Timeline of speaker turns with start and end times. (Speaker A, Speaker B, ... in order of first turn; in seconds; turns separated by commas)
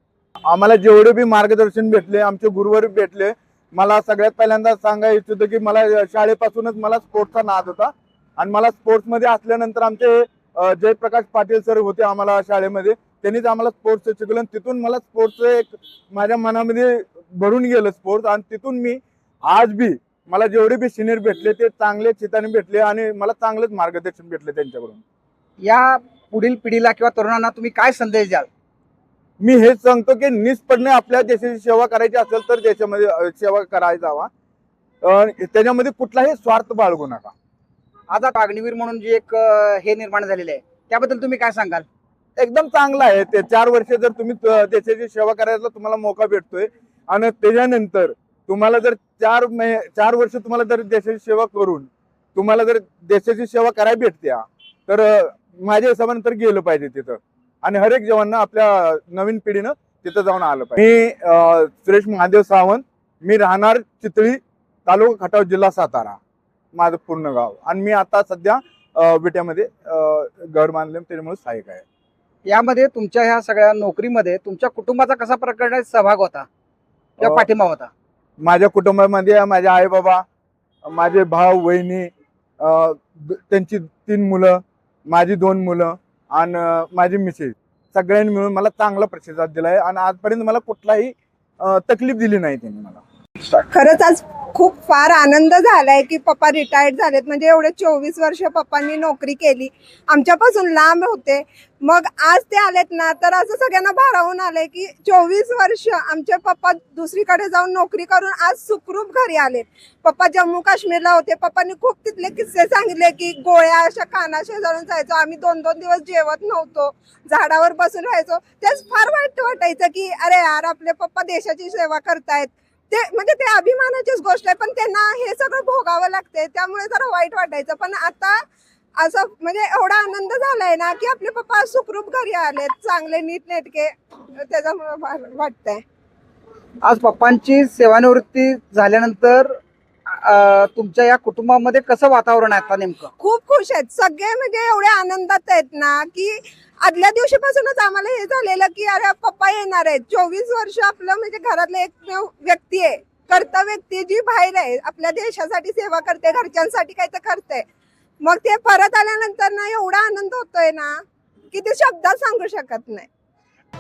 Speaker A: 0.5-25.0, Speaker B: 25.6-28.5, Speaker A: 29.4-34.3, Speaker A: 35.0-37.3, Speaker B: 38.1-41.9, Speaker A: 42.4-66.2, Speaker A: 66.8-71.8, Speaker B: 72.5-76.5, Speaker B: 77.2-77.9, Speaker A: 78.4-80.2, Speaker A: 80.8-93.0, Speaker C: 93.5-128.4, Speaker C: 129.0-135.8, Speaker B: 136.8-143.1, Speaker C: 143.2-157.6, Speaker C: 158.2-160.9, Speaker C: 161.5-163.1